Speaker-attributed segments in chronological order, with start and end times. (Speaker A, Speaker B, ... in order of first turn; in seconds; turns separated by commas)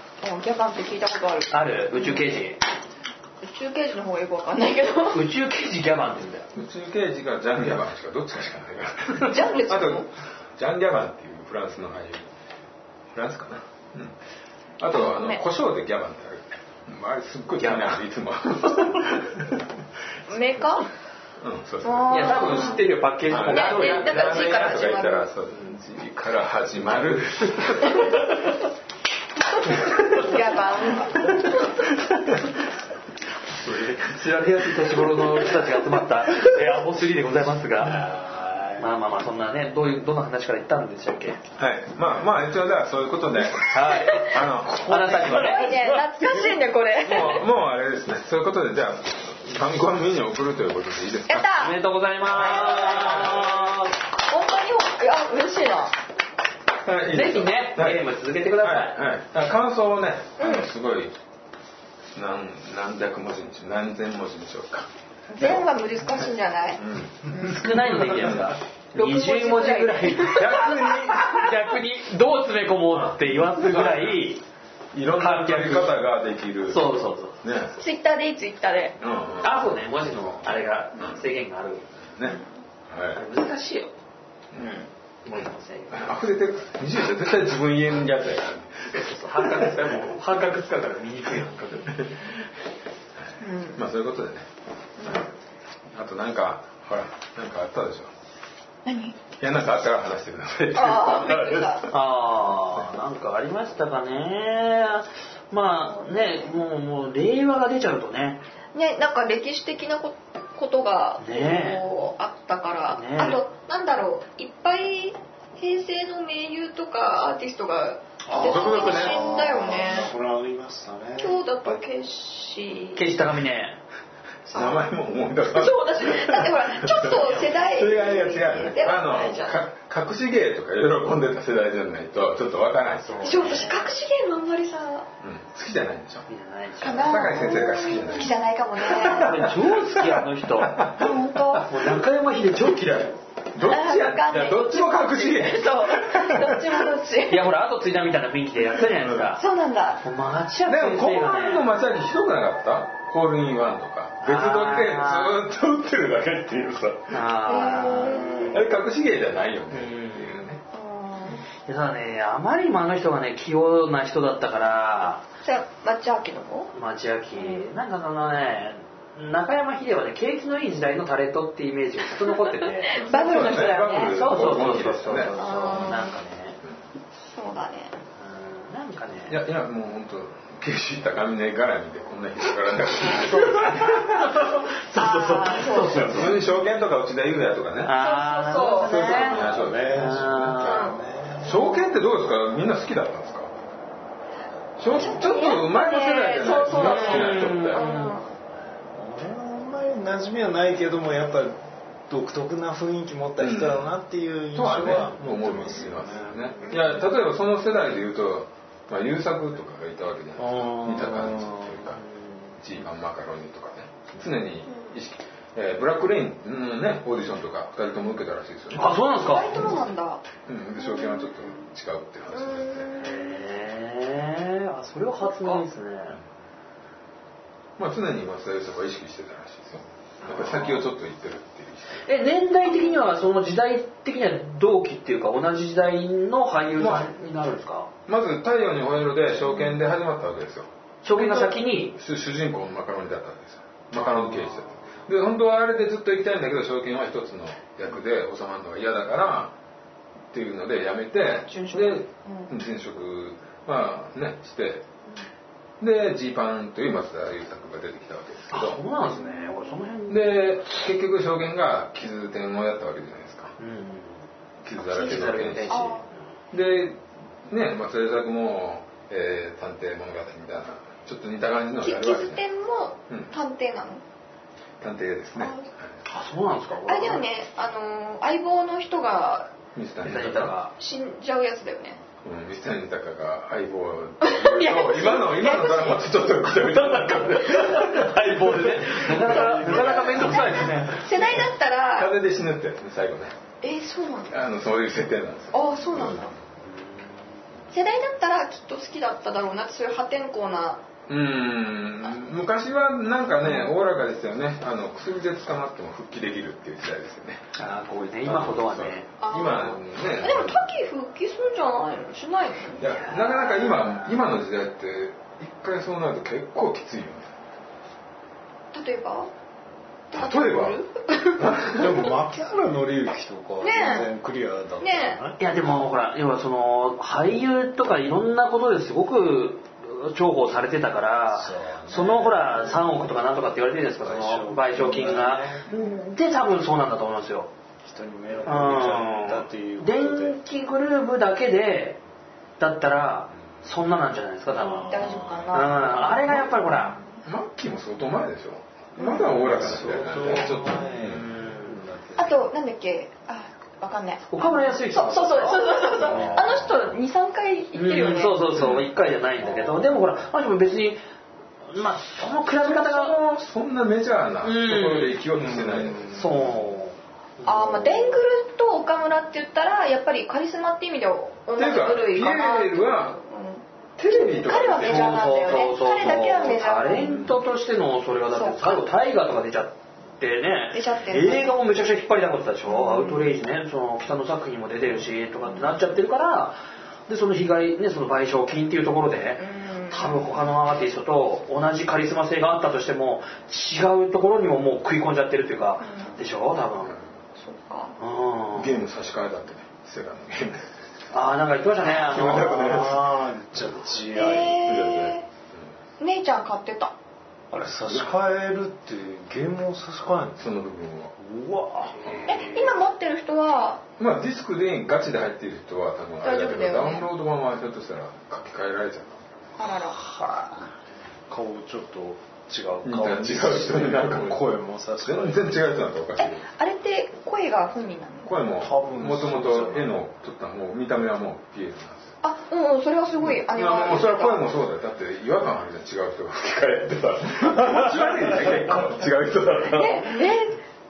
Speaker A: 0.2-2.2, Speaker B: 1.5-2.6, Speaker A: 3.4-5.2, Speaker B: 5.1-6.5, Speaker C: 6.5-12.3, Speaker A: 9.1-10.1, Speaker C: 13.1-14.2, Speaker C: 14.8-19.6, Speaker A: 14.9-15.4, Speaker B: 17.6-18.0, Speaker A: 20.3-20.9, Speaker C: 21.4-28.2, Speaker A: 21.8-25.3, Speaker B: 22.1-24.7, Speaker A: 30.0-31.7, Speaker B: 33.5-38.2, Speaker D: 37.9-38.9, Speaker B: 38.8-41.4, Speaker C: 41.6-45.8, Speaker B: 43.6-46.6, Speaker A: 44.1-44.4, Speaker A: 45.1-47.5, Speaker C: 47.0-51.5, Speaker A: 51.3-55.9, Speaker B: 51.5-53.9, Speaker C: 52.9-53.4, Speaker C: 56.8-58.0, Speaker B: 57.1-59.0, Speaker C: 58.6-61.1, Speaker A: 60.4-60.7, Speaker C: 62.1-65.7, Speaker A: 65.3-67.7, Speaker C: 66.8-67.2, Speaker B: 67.4-74.4, Speaker C: 67.9-68.5, Speaker A: 69.0-70.7, Speaker C: 70.3-71.5, Speaker C: 73.6-74.0, Speaker C: 74.9-77.8, Speaker B: 75.2-76.0, Speaker B: 76.7-77.4, Speaker A: 77.8-79.0, Speaker C: 79.0-79.6, Speaker B: 79.4-81.9, Speaker C: 81.0-81.2, Speaker C: 82.2-83.2, Speaker B: 83.2-83.9, Speaker A: 84.6-84.9, Speaker B: 85.2-86.1, Speaker C: 85.9-89.7, Speaker B: 88.9-92.1, Speaker A: 93.4-93.8, Speaker C: 93.8-94.5, Speaker A: 95.0-95.3, Speaker C: 95.9-98.1, Speaker A: 98.8-99.2, Speaker C: 99.4-101.9, Speaker A: 100.7-101.9, Speaker B: 101.9-108.4, Speaker A: 105.8-106.5, Speaker A: 108.7-120.1, Speaker B: 111.2-111.8, Speaker B: 112.9-113.4, Speaker D: 118.3-121.8, Speaker C: 118.3-119.3, Speaker A: 121.2-123.0, Speaker B: 123.0-123.8, Speaker A: 124.5-124.9, Speaker C: 124.5-133.7, Speaker A: 125.5-129.6, Speaker B: 133.0-133.9, Speaker A: 133.2-135.1, Speaker C: 135.2-136.3, Speaker B: 136.3-137.3, Speaker A: 136.8-139.5, Speaker C: 136.9-141.7, Speaker B: 139.0-140.8, Speaker A: 141.0-141.7, Speaker B: 141.6-143.2, Speaker C: 143.5-146.9, Speaker A: 143.7-147.4, Speaker B: 147.3-149.4, Speaker C: 148.8-149.2, Speaker A: 149.3-150.0, Speaker B: 150.0-151.7, Speaker C: 150.7-157.2, Speaker B: 154.2-155.4, Speaker B: 157.1-158.6, Speaker A: 157.5-158.6, Speaker C: 158.2-160.6, Speaker B: 159.7-160.5, Speaker A: 160.7-161.4, Speaker B: 161.7-165.2, Speaker A: 165.4-166.7, Speaker B: 166.7-176.6, Speaker A: 167.4-167.7, Speaker A: 172.9-174.5, Speaker C: 173.0-175.3, Speaker A: 175.3-176.1, Speaker A: 177.3-178.0, Speaker B: 178.2-179.4, Speaker C: 179.3-184.5, Speaker B: 183.2-186.4, Speaker A: 184.9-186.4, Speaker C: 185.9-187.9, Speaker B: 187.8-190.9, Speaker A: 187.9-189.5, Speaker C: 188.8-193.5, Speaker D: 189.3-191.6, Speaker A: 190.6-191.9, Speaker C: 194.8-197.8, Speaker A: 194.9-198.3, Speaker B: 196.7-198.2, Speaker D: 198.9-201.6, Speaker D: 202.1-206.6, Speaker C: 203.4-203.9, Speaker C: 204.5-212.0, Speaker A: 206.7-207.0, Speaker D: 210.6-211.2, Speaker B: 210.7-212.5, Speaker C: 212.6-219.9, Speaker A: 214.7-214.9, Speaker B: 218.7-219.6, Speaker A: 219.2-220.2, Speaker C: 220.5-222.9, Speaker A: 220.8-221.6, Speaker A: 222.3-223.4, Speaker B: 223.0-226.2, Speaker A: 225.2-225.6, Speaker C: 227.8-232.1, Speaker B: 230.2-230.8, Speaker B: 232.1-237.9, Speaker A: 232.7-233.0, Speaker C: 236.8-237.1, Speaker C: 238.1-240.7, Speaker B: 241.0-242.0, Speaker A: 241.2-241.6, Speaker C: 241.9-249.5, Speaker B: 244.0-244.5, Speaker C: 250.3-254.8, Speaker A: 251.2-252.5, Speaker C: 255.8-258.8, Speaker B: 258.5-260.6, Speaker A: 259.1-259.6, Speaker C: 260.1-263.5, Speaker B: 263.6-266.1, Speaker C: 264.6-265.9, Speaker A: 265.0-266.1, Speaker C: 266.5-272.4, Speaker A: 271.8-274.0, Speaker C: 274.8-275.9, Speaker A: 275.4-275.7, Speaker B: 276.1-277.2, Speaker A: 276.9-279.5, Speaker C: 279.8-280.5, Speaker B: 280.0-280.7, Speaker A: 280.8-282.0, Speaker C: 282.2-290.3, Speaker A: 284.2-286.4, Speaker B: 286.6-291.1, Speaker A: 289.1-292.1, Speaker C: 291.1-293.3, Speaker A: 293.6-294.4, Speaker C: 294.3-296.3, Speaker A: 295.5-296.3, Speaker A: 297.7-300.8, Speaker C: 301.1-307.4, Speaker A: 303.4-303.7, Speaker B: 307.6-309.1, Speaker C: 308.2-310.7, Speaker A: 309.2-312.8, Speaker C: 312.8-317.3, Speaker B: 312.9-313.8, Speaker A: 318.7-319.3, Speaker A: 320.1-321.6, Speaker C: 320.1-320.8, Speaker C: 321.4-322.0, Speaker D: 321.7-325.4, Speaker A: 323.6-324.1, Speaker A: 324.8-325.2, Speaker B: 325.4-337.5, Speaker D: 331.3-333.0, Speaker D: 334.0-335.7, Speaker A: 335.7-336.0, Speaker D: 337.8-340.4, Speaker B: 338.4-342.0, Speaker B: 342.6-347.0, Speaker D: 344.5-345.8, Speaker A: 344.7-347.0, Speaker C: 347.2-351.2, Speaker A: 349.0-349.4, Speaker D: 349.2-352.5, Speaker B: 351.0-351.8, Speaker A: 352.2-358.4, Speaker B: 354.3-356.4, Speaker D: 356.0-356.8, Speaker B: 357.7-361.0, Speaker C: 358.6-358.9, Speaker B: 361.7-363.2, Speaker C: 362.6-366.2, Speaker B: 364.4-365.2, Speaker D: 365.4-366.7, Speaker B: 366.1-368.2, Speaker A: 367.4-377.4, Speaker C: 371.6-373.2, Speaker C: 374.0-377.3, Speaker B: 374.6-396.9, Speaker A: 378.3-378.8, Speaker A: 380.7-381.6, Speaker A: 382.7-383.3, Speaker A: 389.4-390.4, Speaker A: 395.8-396.2, Speaker A: 397.4-397.9, Speaker B: 398.0-398.7, Speaker C: 398.6-400.7, Speaker B: 401.1-402.7, Speaker C: 401.9-403.2, Speaker D: 402.2-404.7, Speaker A: 404.1-405.3, Speaker C: 404.6-405.7, Speaker A: 406.0-406.9, Speaker D: 407.5-410.6, Speaker C: 410.4-411.1, Speaker D: 411.2-412.7, Speaker C: 412.0-412.4, Speaker A: 412.3-413.8, Speaker C: 414.0-419.2, Speaker A: 416.2-417.1, Speaker A: 419.6-420.0, Speaker D: 419.9-420.7, Speaker D: 421.3-425.7, Speaker C: 422.8-424.5, Speaker C: 425.0-426.4, Speaker A: 426.2-428.3, Speaker C: 428.2-432.1, Speaker D: 428.6-429.9, Speaker A: 432.2-434.4, Speaker C: 433.2-440.4, Speaker A: 439.7-440.6